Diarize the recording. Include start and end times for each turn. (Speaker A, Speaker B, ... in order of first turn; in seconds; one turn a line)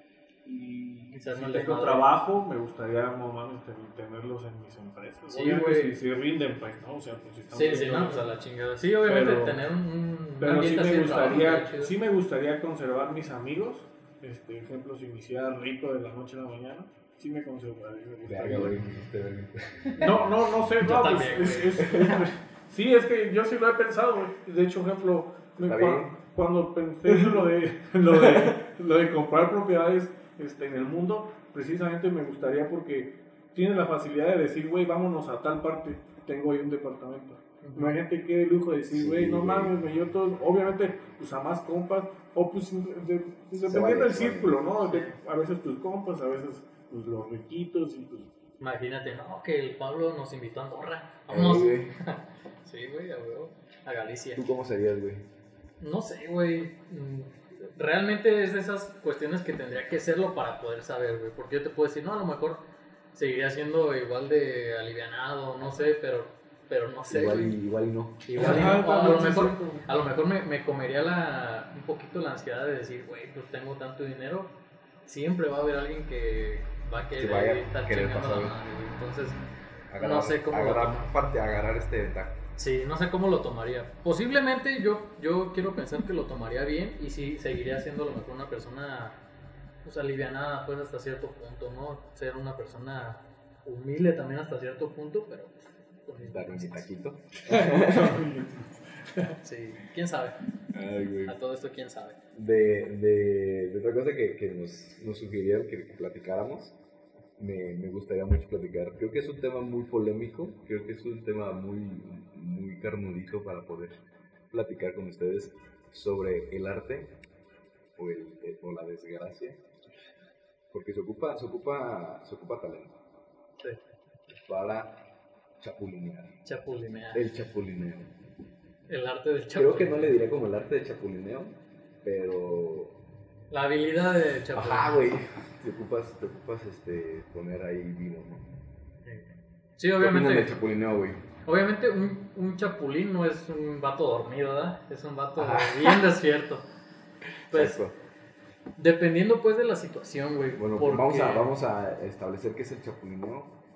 Speaker A: 0.5-8.3
Speaker B: 1.1-2.1
Speaker B: 5.3-6.0
Speaker B: 7.5-11.9
Speaker A: 9.1-9.6
Speaker A: 10.4-18.9
Speaker C: 18.2-20.3
Speaker A: 20.0-48.3
Speaker B: 20.8-22.0
Speaker C: 21.8-22.3
Speaker C: 25.6-26.1
Speaker C: 27.1-27.4
Speaker C: 28.1-28.5
Speaker B: 37.6-38.0
Speaker C: 38.9-39.8
Speaker C: 43.6-44.6
Speaker B: 44.9-45.1
Speaker B: 48.6-54.5
Speaker C: 51.3-52.0
Speaker C: 54.4-55.3
Speaker B: 55.8-67.6
Speaker C: 67.1-68.8
Speaker B: 68.2-74.5
Speaker A: 68.4-69.9
Speaker B: 75.1-79.4
Speaker C: 77.2-78.6
Speaker C: 79.9-82.4
Speaker B: 80.0-81.1
Speaker B: 82.6-89.2
Speaker B: 89.8-96.9
Speaker C: 96.2-98.2
Speaker A: 97.4-99.4
Speaker B: 99.4-100.4
Speaker C: 100.7-101.3
Speaker B: 101.2-102.2
Speaker C: 102.3-106.8
Speaker C: 107.4-114.0
Speaker C: 114.5-117.1
Speaker C: 118.0-119.6
Speaker C: 120.7-123.0
Speaker C: 124.3-125.0
Speaker C: 125.6-126.3
Speaker B: 126.5-127.3
Speaker C: 127.1-128.1
Speaker B: 128.9-130.2
Speaker C: 129.6-133.0
Speaker B: 133.5-135.1
Speaker C: 134.5-138.5
Speaker B: 139.1-140.6
Speaker C: 140.0-141.3
Speaker B: 141.4-146.7
Speaker C: 145.4-146.1
Speaker C: 147.5-148.0
Speaker B: 147.5-147.8
Speaker B: 148.8-151.5
Speaker C: 150.6-153.6